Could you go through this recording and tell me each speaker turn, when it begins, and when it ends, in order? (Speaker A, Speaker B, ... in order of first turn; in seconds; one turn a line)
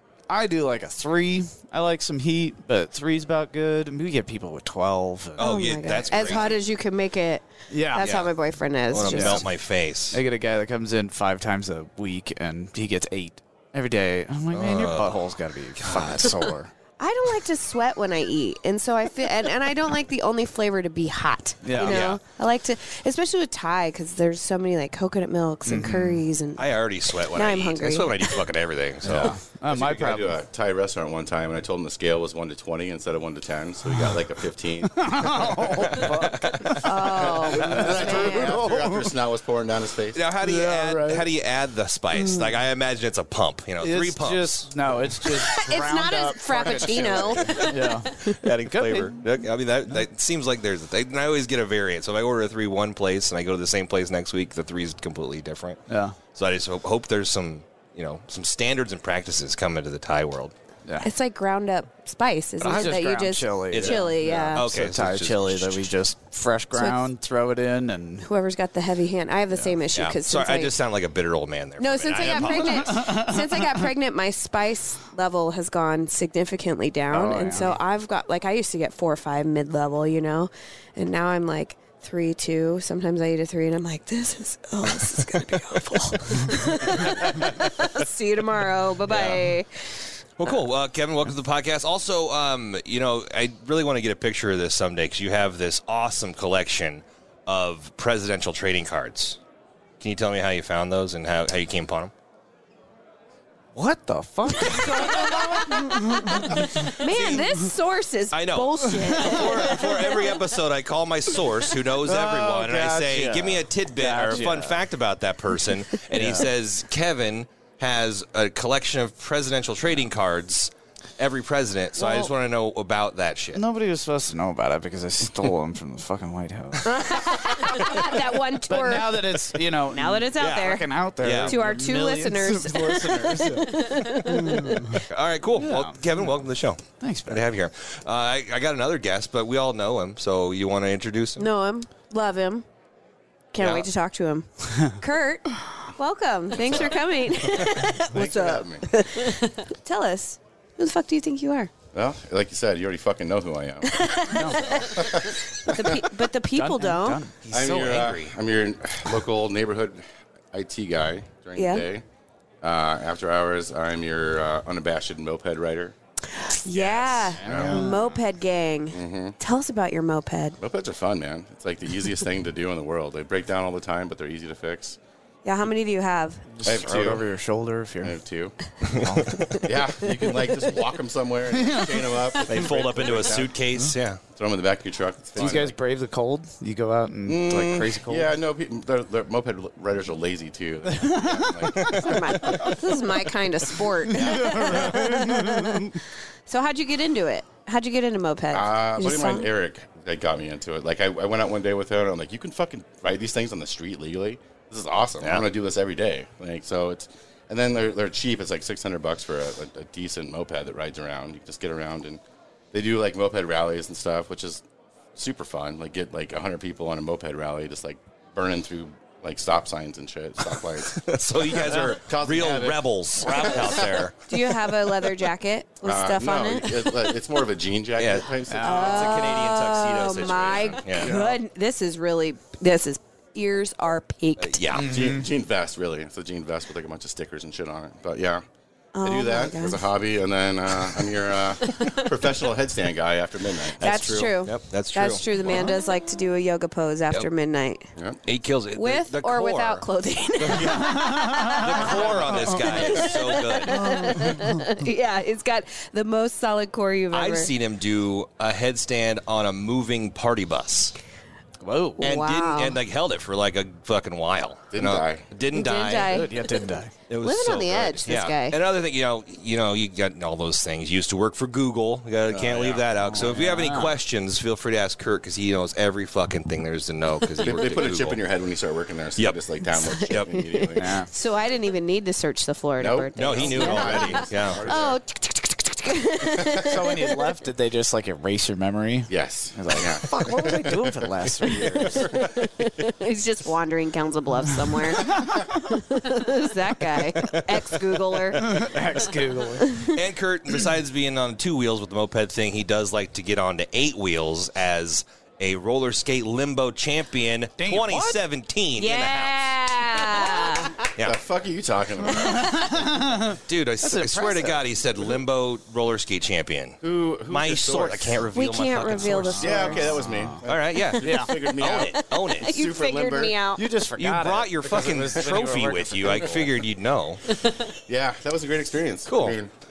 Speaker A: 0.3-6.5
Speaker B: 5.4-6.6
Speaker C: 5.4-9.4
Speaker A: 7.7-8.3
Speaker B: 8.0-8.3
Speaker B: 8.9-10.2
Speaker A: 9.0-9.5
Speaker A: 10.1-16.7
Speaker B: 14.5-15.3
Speaker B: 15.8-16.4
Speaker C: 17.0-26.7
Speaker A: 21.6-22.1
Speaker B: 21.8-22.2
Speaker A: 25.7-26.2
Speaker B: 26.6-29.4
Speaker C: 27.3-28.4
Speaker A: 29.0-30.4
Speaker D: 29.1-36.3
Speaker A: 34.8-39.2
Speaker B: 35.9-36.7
Speaker C: 36.8-38.6
Speaker D: 37.0-40.2
Speaker B: 40.1-44.7
Speaker A: 40.4-41.3
Speaker A: 42.2-42.5
Speaker A: 43.8-49.2
Speaker C: 45.6-48.3
Speaker D: 46.6-47.6
Speaker B: 48.2-55.8
Speaker A: 55.9-56.2
Speaker B: 56.4-60.5
Speaker C: 61.0-64.6
Speaker A: 62.6-68.3
Speaker B: 63.7-65.9
Speaker C: 66.7-67.1
Speaker C: 68.2-70.7
Speaker A: 69.5-69.8
Speaker B: 70.0-73.0
Speaker C: 71.8-89.7
Speaker A: 72.2-73.7
Speaker A: 77.1-77.8
Speaker B: 89.1-89.5
Speaker B: 90.4-99.4
Speaker B: 100.0-102.1
Speaker A: 103.8-106.7
Speaker C: 104.6-110.2
Speaker B: 106.8-107.6
Speaker B: 108.3-123.6
Speaker A: 109.0-109.6
Speaker A: 112.0-114.8
Speaker A: 116.1-116.5
Speaker A: 123.5-128.1
Speaker C: 126.8-129.4
Speaker A: 128.7-135.0
Speaker C: 129.9-130.8
Speaker B: 131.2-131.6
Speaker C: 131.5-135.0
Speaker B: 135.1-141.5
Speaker A: 135.6-136.4
Speaker A: 137.0-137.4
Speaker C: 141.4-142.7
Speaker C: 143.5-151.7
Speaker B: 143.6-143.9
Speaker D: 148.1-148.9
Speaker D: 151.9-156.0
Speaker C: 153.9-157.2
Speaker A: 154.3-154.9
Speaker A: 156.5-157.3
Speaker B: 157.4-158.4
Speaker D: 157.5-162.0
Speaker C: 161.6-161.9
Speaker D: 162.6-165.9
Speaker C: 166.4-170.6
Speaker B: 166.7-167.9
Speaker A: 167.3-168.2
Speaker D: 167.4-167.9
Speaker D: 168.9-169.3
Speaker D: 170.6-175.0
Speaker C: 175.4-176.4
Speaker A: 176.5-178.2
Speaker D: 176.6-177.3
Speaker D: 178.0-178.6
Speaker B: 178.8-179.4
Speaker A: 179.0-179.4
Speaker D: 179.6-183.5
Speaker A: 181.5-182.4
Speaker B: 182.5-184.2
Speaker D: 184.3-185.8
Speaker A: 185.4-188.3
Speaker D: 187.3-192.9
Speaker A: 190.9-192.6
Speaker C: 191.9-199.5
Speaker A: 194.1-195.9
Speaker D: 194.1-194.9
Speaker D: 198.5-212.2
Speaker B: 205.2-205.5
Speaker D: 212.7-214.6
Speaker D: 215.2-224.1
Speaker B: 220.5-224.2
Speaker A: 221.6-222.6
Speaker A: 223.2-224.0
Speaker C: 224.3-227.0
Speaker D: 225.8-229.2
Speaker B: 228.0-231.1
Speaker A: 228.5-229.0
Speaker C: 228.6-234.8
Speaker A: 231.0-231.4
Speaker B: 234.4-234.9
Speaker A: 234.7-235.3
Speaker D: 234.8-238.4
Speaker C: 238.9-239.8
Speaker D: 239.0-244.0
Speaker B: 243.8-245.6
Speaker C: 243.8-247.9
Speaker B: 248.3-249.8
Speaker C: 248.8-257.5
Speaker B: 250.4-254.2
Speaker A: 250.8-252.7
Speaker A: 253.8-254.6
Speaker B: 257.1-260.9
Speaker A: 261.6-262.1
Speaker C: 262.0-262.8
Speaker B: 262.0-266.3
Speaker D: 264.7-265.2
Speaker C: 265.5-266.5
Speaker A: 266.1-266.9
Speaker B: 267.1-278.2
Speaker C: 267.2-268.6
Speaker D: 272.3-273.4
Speaker A: 273.0-274.0
Speaker D: 277.4-281.0
Speaker C: 279.6-287.2
Speaker A: 280.8-281.1
Speaker D: 282.8-285.0
Speaker B: 283.1-284.7
Speaker D: 286.3-286.6
Speaker A: 286.6-292.1
Speaker D: 289.1-292.4
Speaker C: 292.1-298.4
Speaker A: 295.0-295.5
Speaker B: 297.2-297.5
Speaker B: 298.3-298.8
Speaker A: 298.4-299.8
Speaker C: 299.6-299.9
Speaker B: 299.9-309.5
Speaker A: 307.6-308.2
Speaker C: 308.8-310.8
Speaker D: 311.0-312.6
Speaker A: 312.1-314.6
Speaker B: 313.3-319.8
Speaker D: 316.8-318.2
Speaker C: 318.3-319.9
Speaker A: 319.3-320.4
Speaker D: 319.4-323.4
Speaker B: 320.5-322.6
Speaker A: 320.9-321.3
Speaker C: 321.9-323.7
Speaker A: 323.6-326.6
Speaker B: 324.0-327.2
Speaker D: 324.7-325.3
Speaker D: 327.9-329.5
Speaker B: 329.1-329.4